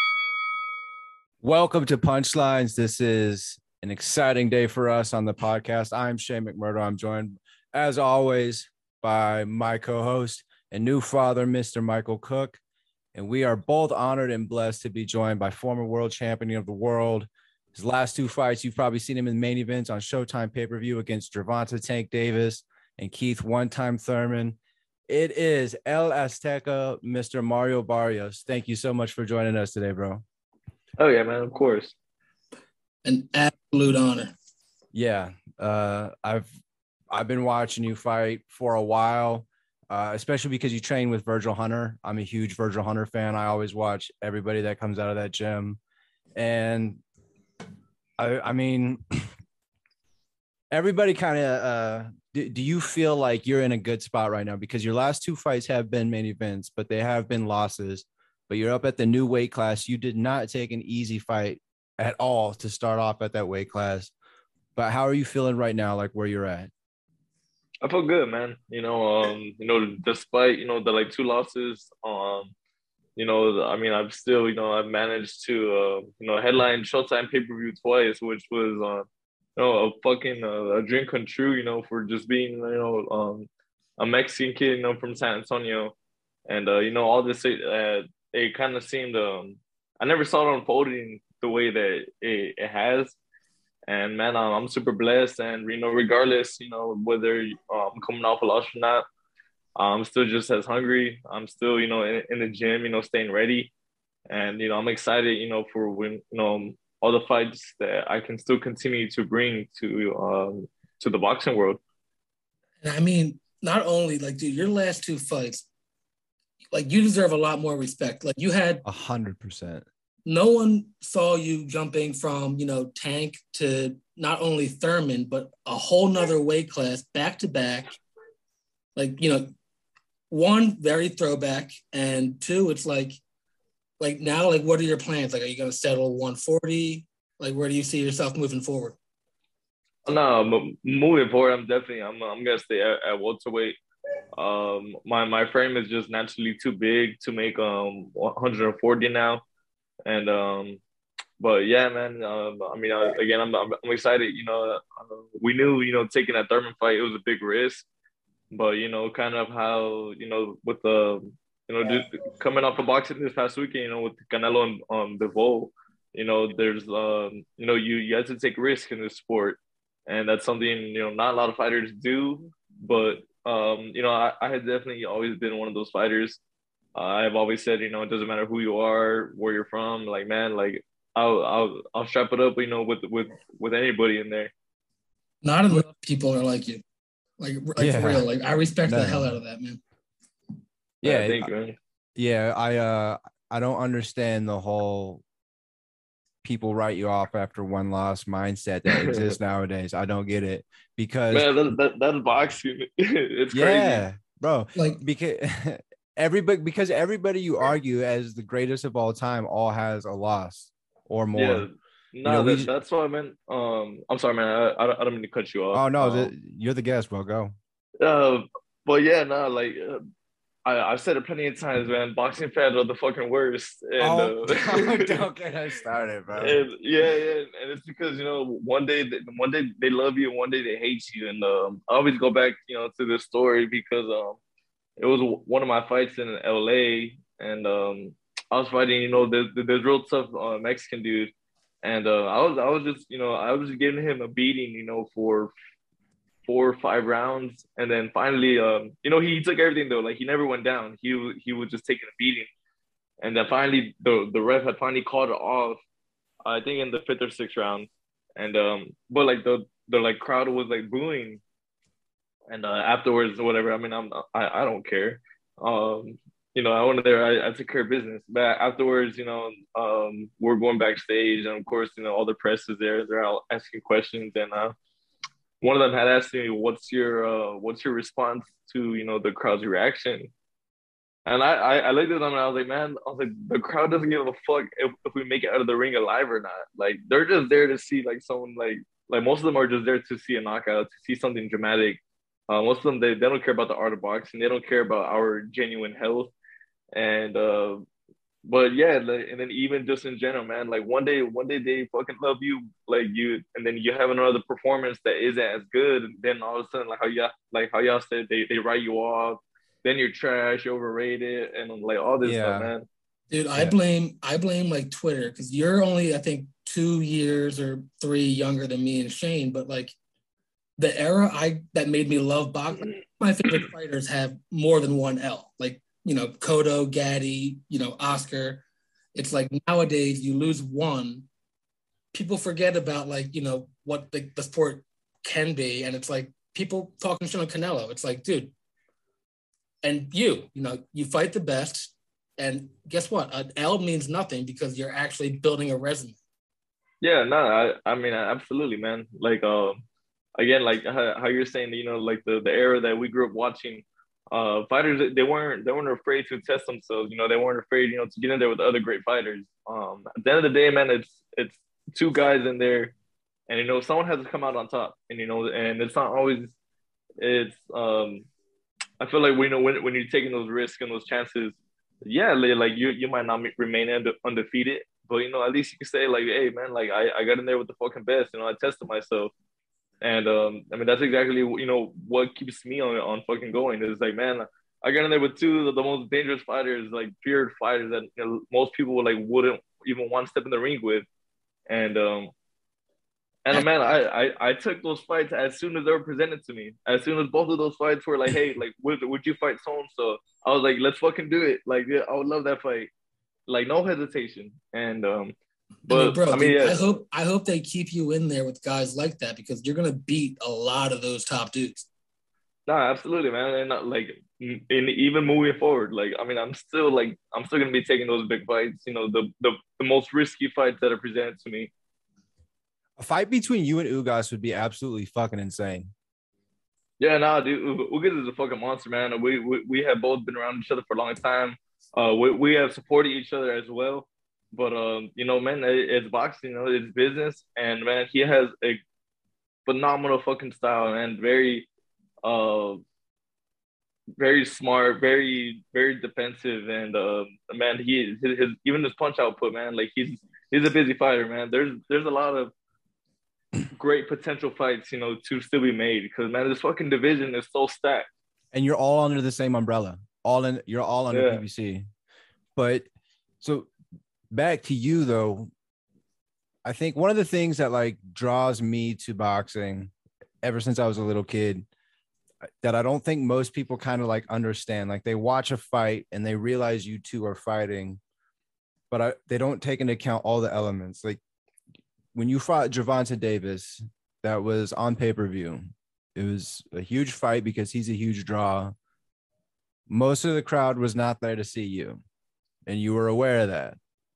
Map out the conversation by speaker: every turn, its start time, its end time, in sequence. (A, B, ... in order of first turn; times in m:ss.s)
0:01.4-0:12.6 A
0:13.1-0:24.6 A
0:25.1-0:30.2 A
0:31.0-0:31.9 B
0:33.0-0:34.3 C
0:34.9-0:36.5 A
0:37.1-0:45.8 A
0:46.3-0:47.0 A
0:48.2-0:49.3 A
0:50.7-1:04.1 A
1:04.8-1:06.7 A
1:07.8-1:12.5 B
1:13.2-1:25.9 B
1:26.5-1:33.1 B
1:33.9-1:39.0 B
1:39.8-1:43.7 B
1:44.3-1:51.8 B
1:52.8-1:55.7 C
1:56.7-1:58.8 C
1:58.8-1:59.8 A
2:00.2-2:08.0 C
2:09.0-2:09.5 C
2:10.3-2:13.2 C
2:14.0-2:19.0 C
2:20.0-2:23.8 B
2:24.3-2:29.4 B
2:30.1-2:30.8 B
2:31.4-2:37.8 B
2:38.5-2:56.4 B
2:56.9-3:04.5 B
3:05.4-3:06.8 C
3:07.4-3:09.8 C
3:07.8-3:08.3 A
3:08.8-3:09.3 A
3:11.0-3:11.5 A
3:11.0-3:11.8 B
3:12.2-3:15.2 A
3:16.4-3:21.5 A
3:18.9-3:19.3 B
3:21.3-3:24.0 B
3:23.5-3:31.6 A
3:31.3-3:36.3 B
3:32.2-3:32.7 A
3:35.7-3:37.6 A
3:38.0-3:40.0 B
3:40.6-3:45.2 B
3:44.0-3:46.6 A
3:46.4-3:54.4 B
3:55.0-4:01.3 B
4:01.8-4:05.5 B
4:06.4-4:12.5 B
4:13.2-4:15.8 B
4:16.4-4:21.4 B
4:22.5-4:34.7 B
4:35.6-4:40.3 B
4:41.2-4:56.3 B
4:56.9-4:57.8 B
4:58.4-5:12.9 B
5:12.2-5:12.7 A
5:13.3-5:19.9 C
5:20.8-5:28.6 C
5:29.1-5:31.3 C
5:32.1-5:38.5 C
5:39.8-5:46.2 C
5:47.0-5:49.8 B
5:50.4-6:02.9 B
6:03.5-6:06.5 B
6:07.2-6:08.2 B
6:09.0-6:19.3 B
6:20.0-6:31.0 B
6:31.7-6:32.3 B
6:33.4-6:42.9 B
6:43.5-6:45.4 B
6:45.9-6:51.9 C
6:45.9-6:46.8 B
6:52.7-7:01.7 B
7:03.0-7:05.9 A
7:07.0-7:18.8 B
7:19.6-7:21.7 B
7:22.2-7:22.8 B
7:24.2-7:32.5 B
7:33.7-7:38.1 B
7:38.5-7:41.8 A
7:41.1-7:41.4 B
7:42.6-7:42.8 A
7:43.4-7:43.7 A
7:44.3-7:45.5 A
7:46.6-7:49.9 A
7:50.4-7:51.6 A
7:52.6-7:58.0 A
7:58.9-8:01.2 A
8:02.1-8:08.7 A
8:09.9-8:12.0 A
8:12.6-8:13.8 A